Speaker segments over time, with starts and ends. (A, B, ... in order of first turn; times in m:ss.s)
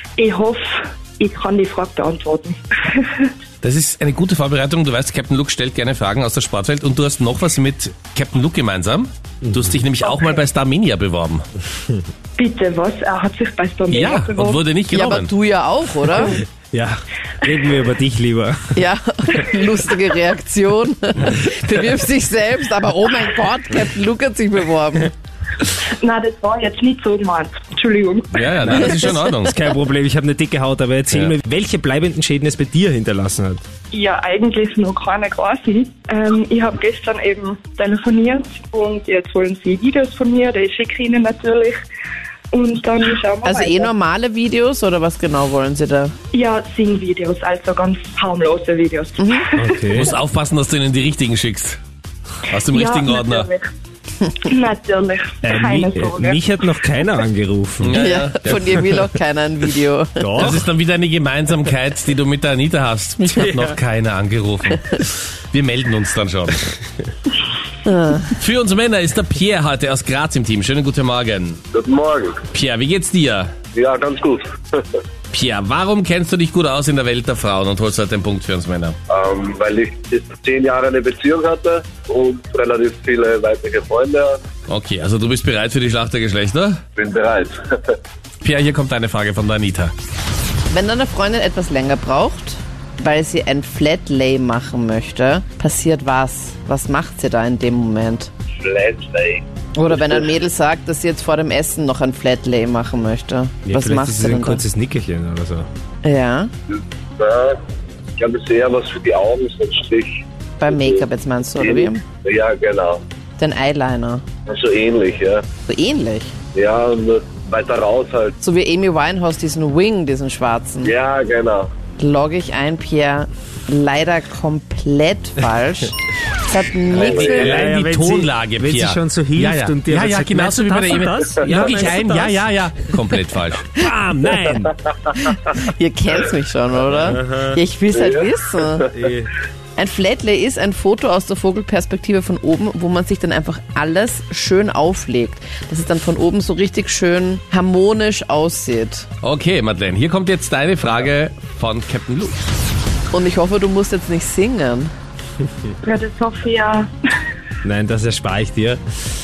0:00.2-0:03.3 A
0:03.6-0:11.4 B
0:10.1-0:10.4 A
0:12.4-0:14.6 A
0:13.9-0:15.3 B
0:14.9-0:16.4 C
0:16.7-0:18.8 D
0:18.8-0:25.1 C
0:25.7-0:28.6 A
0:28.3-0:29.6 B
0:28.6-0:33.6 D
0:33.9-0:41.8 A
0:42.5-0:43.9 A
0:43.4-0:46.1 C
0:46.3-0:50.0 A
0:49.2-0:49.5 C
0:49.6-0:50.1 D
0:49.9-0:51.8 B
0:52.4-0:53.5 B
0:52.6-0:53.7 A
0:54.3-0:56.4 A
0:55.4-0:58.8 D
0:57.8-0:58.9 B
0:57.9-1:00.4 C
1:00.2-1:00.7 D
1:00.4-1:06.8 B
1:03.4-1:03.7 D
1:07.8-1:08.3 C
1:08.2-1:11.6 B
1:11.7-1:12.4 E
1:12.5-1:13.5 B
1:13.7-1:14.8 E
1:15.3-1:19.0 B
1:19.1-1:24.4 E
1:24.7-1:26.8 B
1:27.0-1:28.0 E
1:28.4-1:29.9 B
1:30.7-1:38.3 C
1:38.6-1:39.4 E
1:39.8-1:44.6 C
1:43.6-1:45.7 D
1:46.0-1:46.5 C
1:46.7-1:47.6 E
1:48.2-1:51.0 E
1:50.6-1:52.0 C
1:51.6-1:53.0 E
1:53.4-1:54.2 C
1:54.4-1:55.4 E
1:55.6-1:56.3 C
1:56.5-1:58.3 E
1:58.4-2:00.9 C
2:00.8-2:01.7 E
2:02.0-2:07.6 C
2:06.9-2:07.6 E
2:07.1-2:13.7 B
2:07.3-2:12.5 D
2:13.7-2:14.7 D
2:15.1-2:18.9 C
2:16.9-2:17.6 D
2:18.0-2:18.7 E
2:18.9-2:19.3 D
2:19.8-2:29.1 C
2:29.2-2:32.4 B
2:33.1-2:34.9 C
2:35.8-2:36.9 A
2:37.6-2:38.8 D